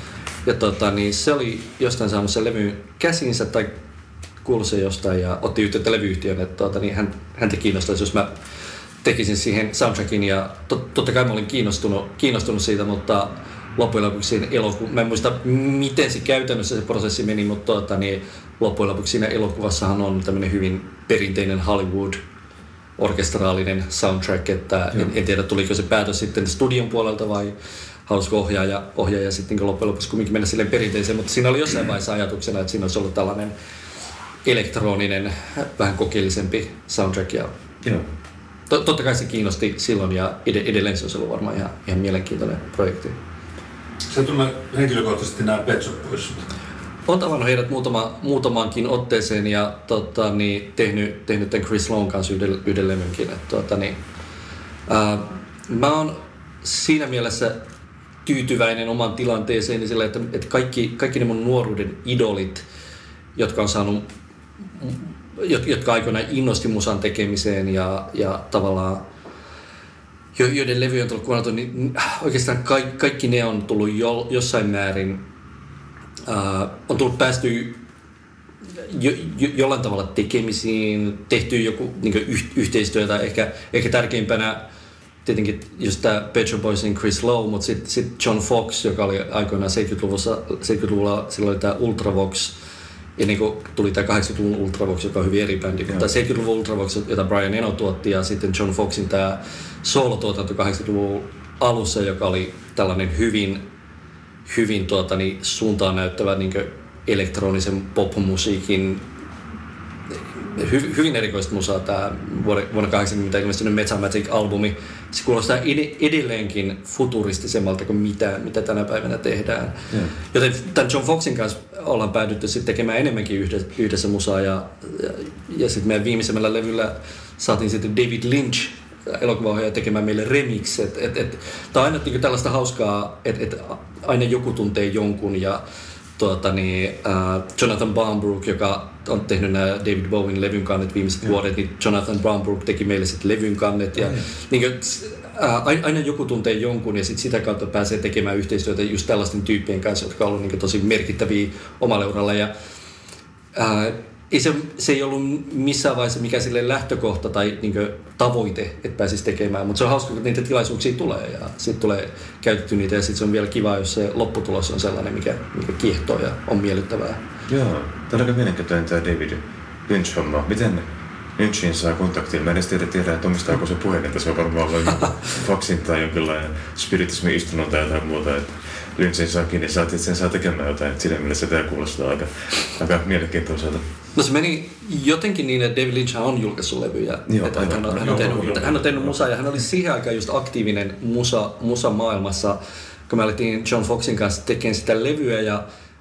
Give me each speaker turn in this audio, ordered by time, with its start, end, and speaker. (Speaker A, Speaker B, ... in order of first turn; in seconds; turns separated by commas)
Speaker A: 0.4-3.7, Speaker A: 4.4-8.3, Speaker A: 9.0-22.2, Speaker A: 23.0-27.5, Speaker A: 28.1-33.5, Speaker A: 34.4-37.5, Speaker A: 38.7-43.1, Speaker B: 44.1-46.4, Speaker A: 47.1-54.0, Speaker A: 54.9-57.6, Speaker A: 58.2-62.6, Speaker A: 63.4-64.0, Speaker A: 64.8-69.0, Speaker A: 70.3-75.2, Speaker A: 76.3-77.8, Speaker A: 78.7-84.6, Speaker A: 85.2-92.5, Speaker A: 93.2-103.6, Speaker A: 104.5-109.0, Speaker A: 110.3-135.6, Speaker A: 136.2-152.5, Speaker C: 144.0-144.3, Speaker A: 153.5-167.2, Speaker C: 167.5-183.8, Speaker A: 184.2-192.6, Speaker C: 187.3-189.1, Speaker B: 188.0-188.8, Speaker A: 193.1-195.6